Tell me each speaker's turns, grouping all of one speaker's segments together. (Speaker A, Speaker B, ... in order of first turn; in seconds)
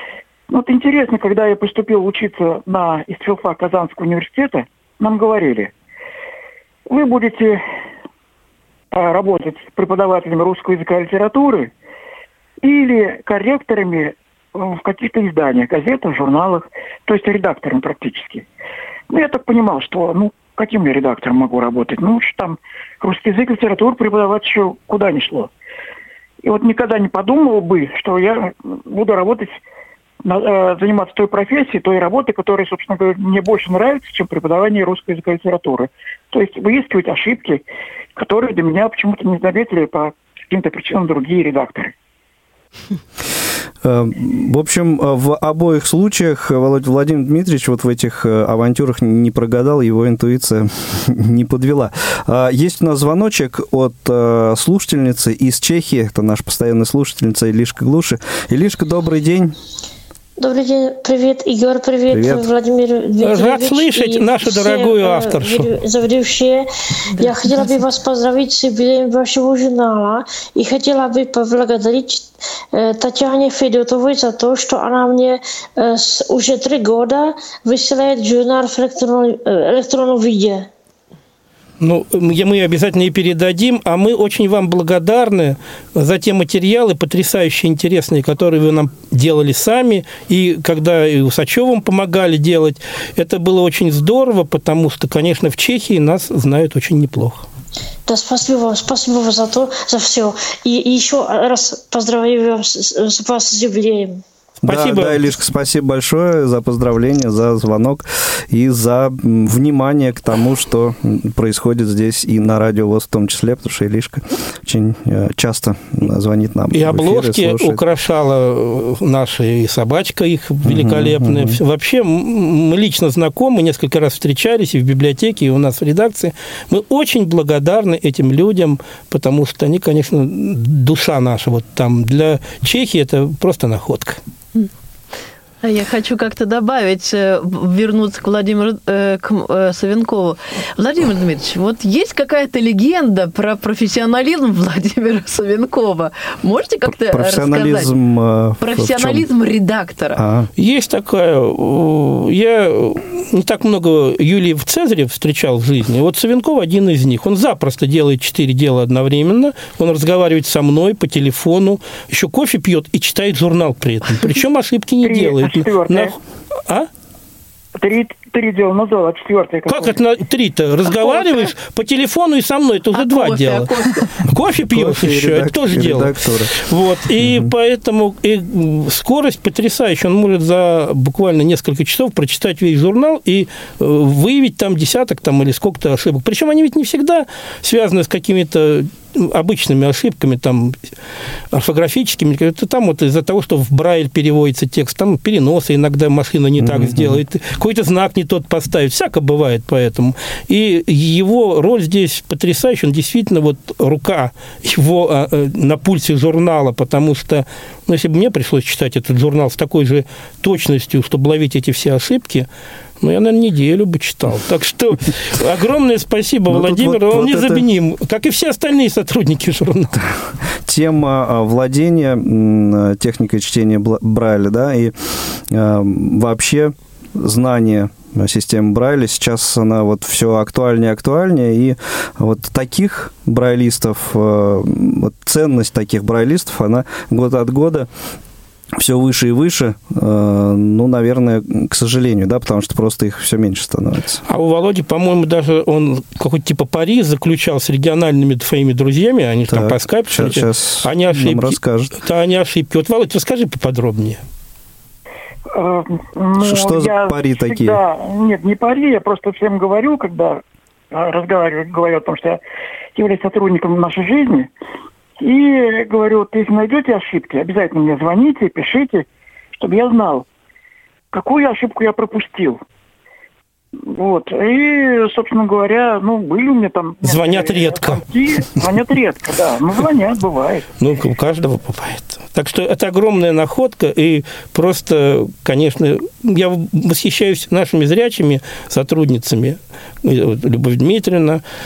Speaker A: 0.5-5.7, 6.9-7.6, 8.9-11.7, 12.6-18.4, 19.1-25.5, 26.4-29.6, 30.2-37.6, 38.1-41.9, 165.0-166.2, 167.8-170.0, 255.5-262.4, 262.9-264.5, 265.2-270.3, 271.1-272.6, 273.9-280.6
Speaker B: 43.8-59.5, 62.1-62.4, 104.6-117.8, 120.6-121.6, 146.8-149.3, 150.2-150.5, 174.7-176.6, 177.2-177.5, 196.6-197.2, 216.5-217.6, 220.6-237.9, 238.8-244.2, 249.5-251.9, 256.4-257.8
Speaker C: 60.4-80.7, 98.1-104.2
Speaker D: 63.2-65.7, 81.8-97.5, 104.6-105.3, 116.7-134.2, 150.6-166.9, 169.7-190.8, 191.5-212.5, 213.0-220.0, 244.3-254.2, 277.0-278.0, 280.8-291.4
Speaker E: 67.1-67.8, 135.6-147.9, 148.6-150.2, 172.9-174.1